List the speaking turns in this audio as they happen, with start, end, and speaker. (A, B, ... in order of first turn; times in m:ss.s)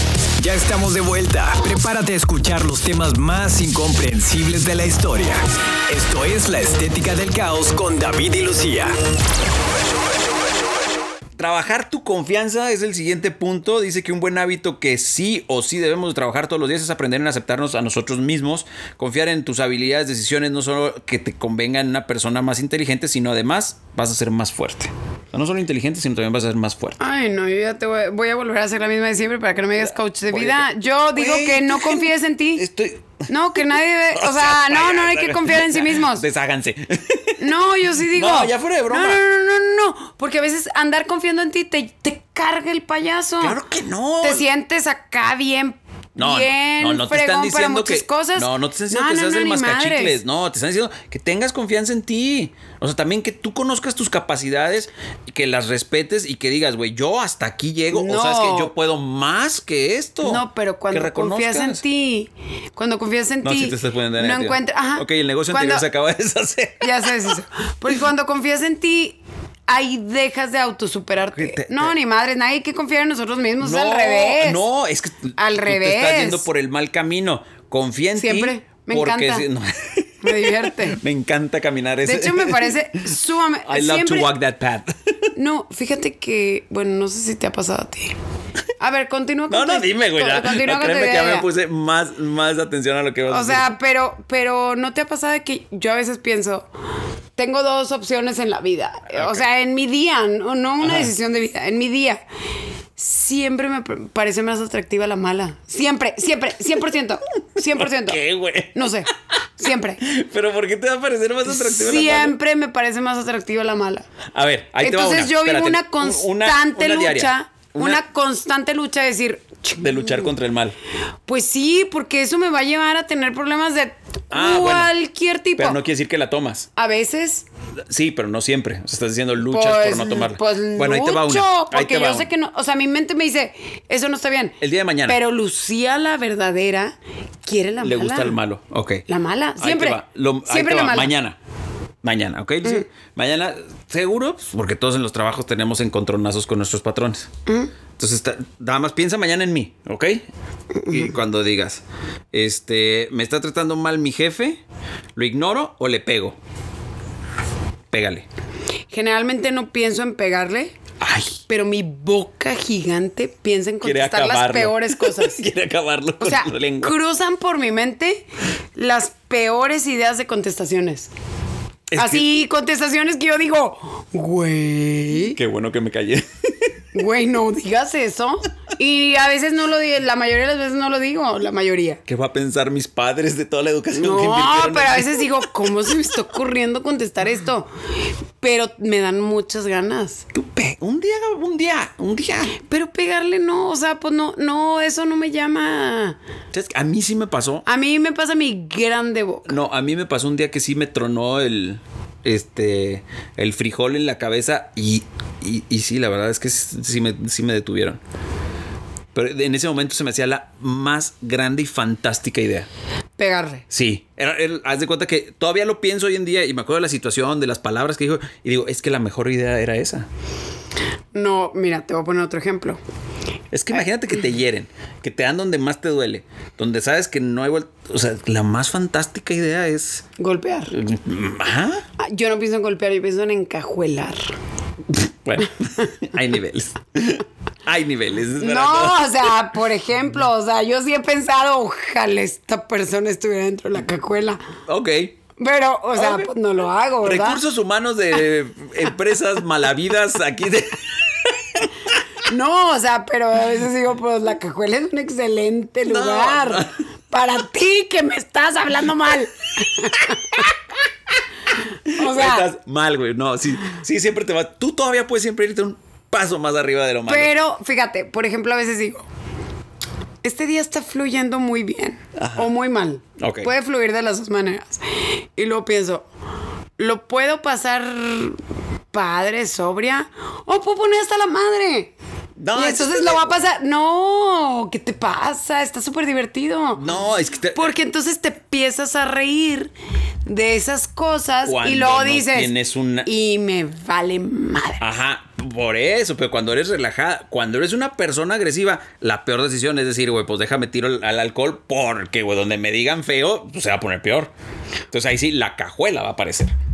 0:00.4-0:08.9 A
0:11.4-0:27.0 B
0:27.0-0:32.6 C
0:30.3-0:39.2 B
0:33.3-0:36.2 C
0:37.4-0:43.6 C
0:43.4-0:44.5 B
0:44.2-0:50.2 C
0:46.2-1:01.8 B
0:57.9-0:58.7 C
1:00.2-1:05.8 C
1:03.4-1:07.4 B
1:06.8-1:14.6 C
1:11.3-1:11.9 B
1:13.6-1:23.1 B
1:15.4-1:16.5 C
1:18.2-1:19.5 C
1:20.2-1:21.0 C
1:22.0-1:24.3 C
1:23.6-1:24.9 B
1:25.3-1:28.1 C
1:28.8-1:31.5 C
1:29.5-1:33.7 B
1:33.3-1:36.7 C
1:37.4-1:42.2 C
1:39.1-1:39.4 B
1:40.8-1:41.1 B
1:43.0-1:48.2 C
1:47.7-1:49.0 B
1:48.7-1:50.0 C
1:49.6-1:52.4 B
1:51.4-1:54.1 C
1:54.3-1:58.0 B
1:54.8-2:00.3 C
1:59.8-2:00.8 B
2:01.2-2:05.8 C
2:04.3-2:04.9 B
2:05.6-2:06.7 B
2:06.8-2:07.5 C
2:07.9-2:12.3 B
2:09.4-2:18.4 C
2:14.6-2:15.2 B
2:17.8-2:19.0 B
2:19.1-2:21.1 C
2:19.6-2:21.4 B
2:22.0-2:27.3 B
2:27.5-2:27.7 C
2:28.0-2:30.2 B
2:30.7-2:31.1 C
2:30.9-2:34.6 B
2:35.2-2:36.4 B
2:37.9-2:38.2 B
2:38.9-2:40.8 C
2:41.0-2:41.4 B
2:41.5-2:45.4 C
2:43.8-2:47.0 B
2:46.2-2:51.1 C
2:51.9-2:52.2 B
2:52.0-2:55.4 C
2:55.3-2:56.7 B
2:56.9-3:02.0 C
3:02.1-3:05.5 B
3:03.9-3:07.7 C
3:08.4-3:10.2 C
3:10.3-3:12.6 B
3:12.6-3:16.2 C
3:16.5-3:17.6 B
3:17.6-3:19.6 C
3:19.5-3:28.0 B
3:29.1-3:32.7 B
3:33.2-3:33.6 C
3:33.7-3:40.1 B
3:41.1-3:42.8 C
3:43.5-3:50.0 B
3:50.2-3:50.7 C
3:50.7-3:51.8 B
3:52.0-3:54.3 C
3:54.9-3:59.3 B
3:58.4-4:04.4 C
4:04.7-4:05.1 B
4:05.4-4:07.4 C
4:05.9-4:06.3 B
4:07.0-4:11.7 B
4:12.2-4:20.5 C
4:15.8-4:16.7 B
4:21.9-4:22.5 C
4:21.9-4:27.3 B
4:27.1-4:29.0 C
4:30.2-4:36.1 C
4:32.2-4:32.5 B
4:33.2-4:33.5 B
4:36.8-4:38.4 C
4:38.9-4:41.9 C
4:42.4-4:43.4 B
4:42.5-4:46.8 C
4:46.8-4:47.7 B
4:47.5-4:49.7 C
4:50.2-4:52.5 C
4:51.4-4:53.1 B
4:53.0-4:54.8 C
4:54.8-5:04.3 B
5:04.9-5:06.5 B